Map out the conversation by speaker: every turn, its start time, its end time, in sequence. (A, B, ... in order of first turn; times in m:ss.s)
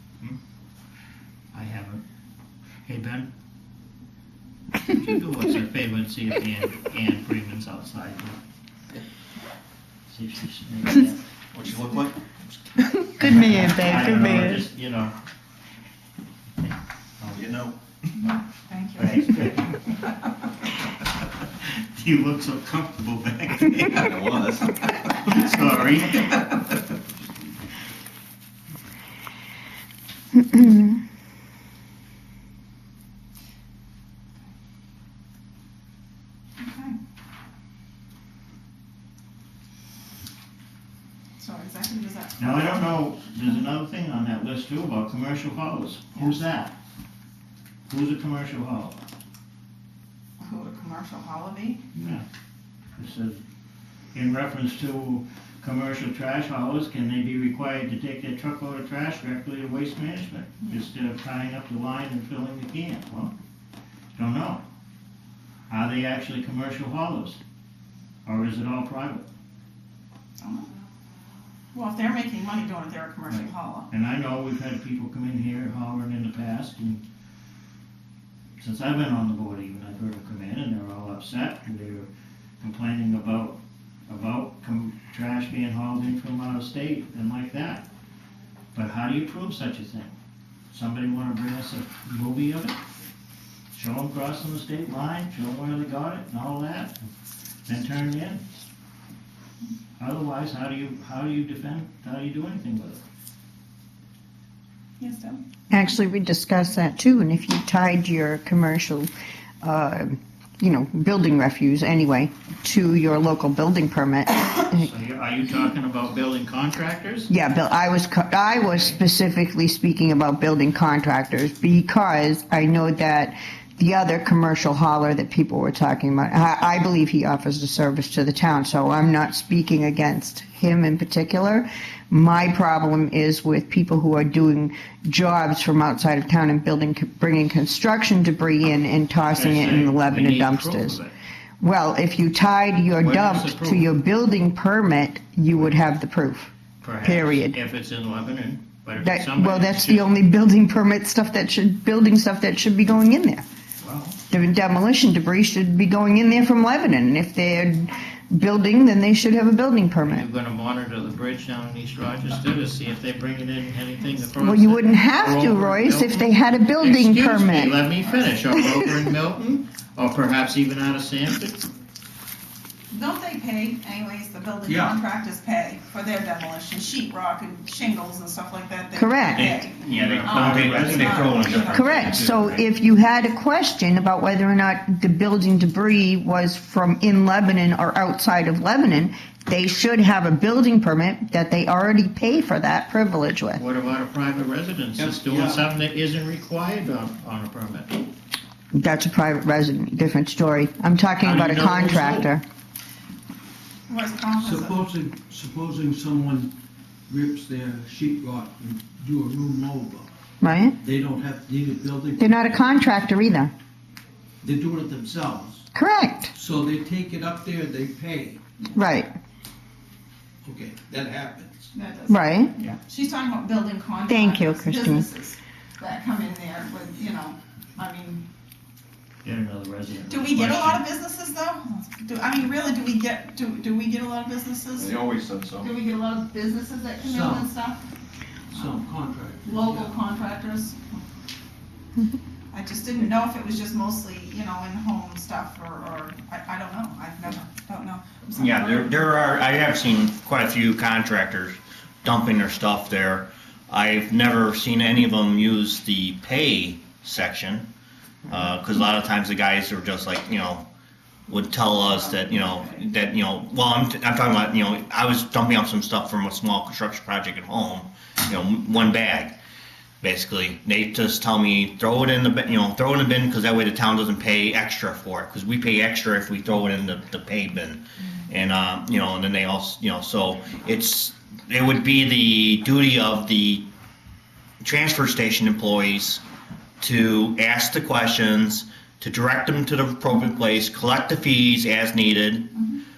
0:01.5-0:02.0 A
0:02.8-0:03.3 A
0:04.9-0:08.4 A
0:10.1-0:11.2 A
0:11.5-0:12.1 B
0:12.8-0:14.6 C
0:13.2-0:15.1 A
0:17.2-0:17.5 A
0:17.4-0:17.7 D
0:18.1-0:19.4 E
0:19.0-0:20.1 A
0:21.6-0:26.5 A
0:24.0-0:25.5 D
0:30.5-0:30.9 C
0:36.6-0:37.0 E
0:41.4-0:43.0 E
0:42.4-0:46.7 A
0:47.9-0:49.0 A
0:50.4-0:51.8 E
0:51.9-0:52.2 A
0:53.0-0:53.4 A
0:54.1-1:03.4 A
1:04.2-1:04.6 A
1:05.7-1:07.4 A
1:08.3-1:09.3 A
1:10.4-1:10.7 E
1:11.7-1:13.9 E
1:13.3-1:17.0 A
1:18.6-1:22.1 A
1:22.6-1:27.9 A
1:28.7-1:30.1 A
1:30.7-1:32.8 A
1:33.7-1:37.0 A
1:37.7-1:38.4 A
1:40.0-1:43.0 A
1:45.0-1:45.4 E
1:45.7-1:49.1 C
1:49.6-1:54.9 C
1:54.7-1:57.3 A
1:57.3-2:21.0 C
2:19.2-2:21.1 A
2:21.6-2:26.5 C
2:23.0-2:23.9 A
2:26.8-2:30.1 A
2:27.0-2:27.6 C
2:29.0-2:33.4 C
2:33.8-2:34.2 A
2:34.3-2:40.2 C
2:40.0-2:51.7 A
2:44.4-2:47.8 C
2:52.9-3:02.3 E
2:54.7-2:55.0 F
2:59.0-2:59.5 C
2:59.3-3:02.6 B
2:59.8-3:01.8 A
3:01.7-3:13.6 C
3:13.6-3:18.0 A
3:15.0-3:15.7 F
3:18.7-3:22.4 C
3:21.2-3:22.3 A
3:23.9-3:24.8 E
3:24.4-3:26.5 F
3:27.1-3:30.1 F
3:30.4-3:30.8 C
3:30.8-3:32.5 F
3:32.2-3:33.5 C
3:34.4-3:35.7 F
3:35.8-3:36.3 C
3:36.3-3:38.4 F
3:38.8-3:39.1 C
3:40.4-3:41.7 F
3:41.7-3:48.2 E
3:42.1-3:42.5 C
3:44.1-3:45.0 C
3:49.2-3:50.8 A
3:50.1-3:55.0 E
3:54.8-3:55.7 D
3:55.6-3:57.8 E
3:57.0-3:57.5 F
3:58.5-4:00.0 F
3:59.4-4:01.0 E
4:02.5-4:09.0 E
4:08.4-4:17.7 B
4:18.3-4:20.7 B
4:21.3-4:29.4 B
4:21.8-4:22.8 E
4:30.0-4:43.6 B
4:44.6-4:46.2 B
4:46.8-4:52.5 B
4:52.5-4:52.8 E